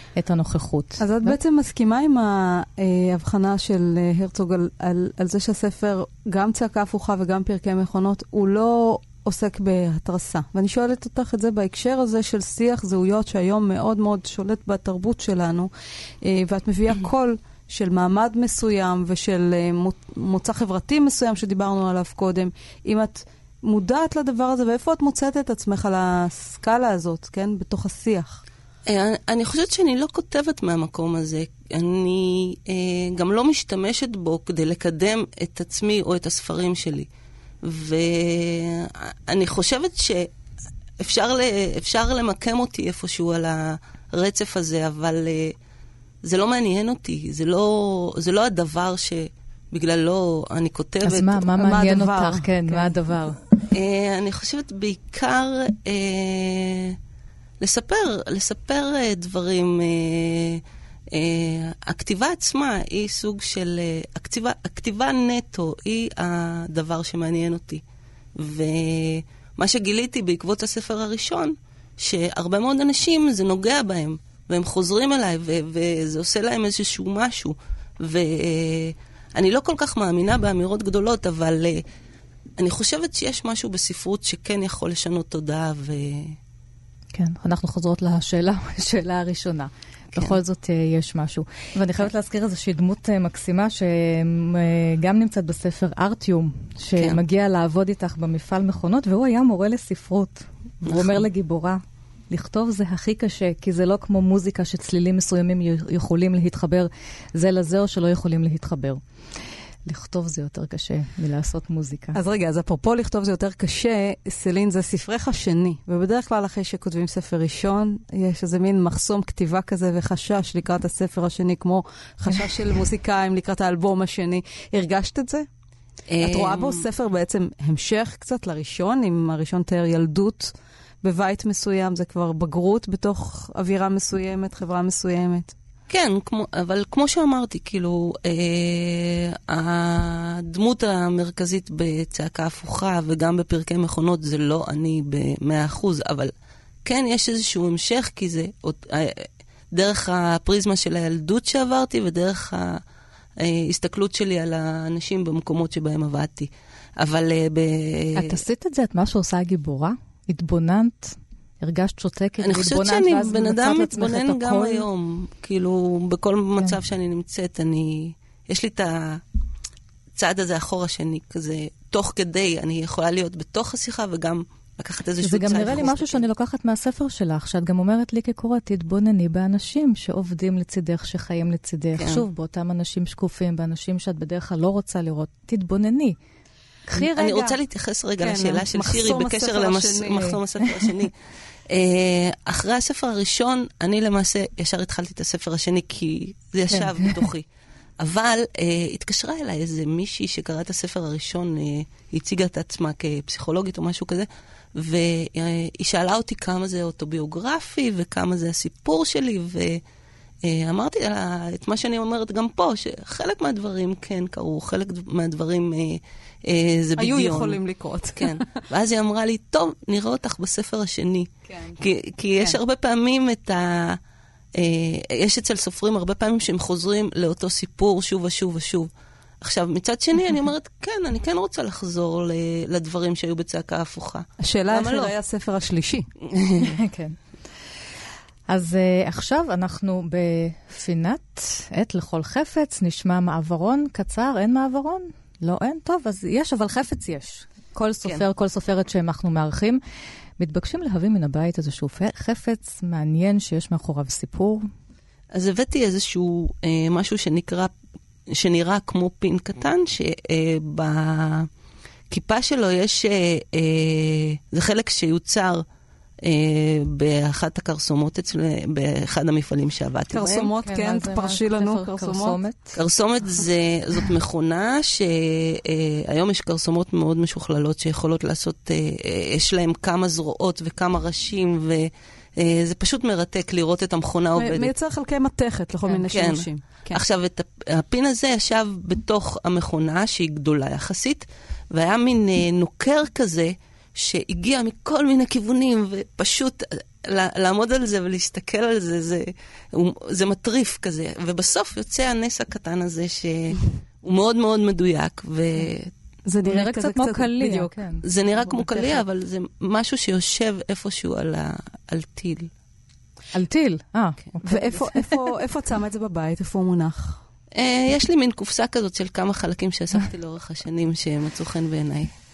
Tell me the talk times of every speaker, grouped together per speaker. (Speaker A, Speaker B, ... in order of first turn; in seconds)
Speaker A: 0.1-1.4, 51.0-53.4, 87.1-109.0, 109.8-112.2, 158.2-164.8, 175.2-186.2, 186.9-187.6, 196.7-197.1, 236.6-237.2, 238.5-249.8, 250.4-254.6, 270.6-272.8, 306.4-308.0, 313.3-315.2
Speaker B: 1.0-15.7, 16.2-28.4, 51.5-52.9, 112.1-125.5, 126.2-135.5, 188.2-190.3, 217.0-218.4, 221.5-221.8, 234.4-236.1, 270.1-272.4, 284.4-287.0, 306.3-307.7, 314.4-317.2
Speaker C: 28.9-37.1, 37.6-40.3, 41.0-45.5, 46.2-51.5, 53.7-57.0, 57.6-67.8, 68.4-81.8, 82.6-86.4, 100.9-101.2, 126.1-126.8, 135.9-146.3, 146.8-152.8, 153.4-158.4, 162.4-169.2, 170.1-176.2, 182.0-182.2, 187.0-191.1, 191.7-197.4, 198.0-209.8, 210.4-217.6, 218.2-224.0, 224.6-228.9, 229.4-235.1, 236.3-236.7, 255.3-257.7, 258.3-261.5, 262.1-265.6, 266.2-270.5, 272.7-284.7, 286.1-305.9, 308.0-312.5, 317.6-322.1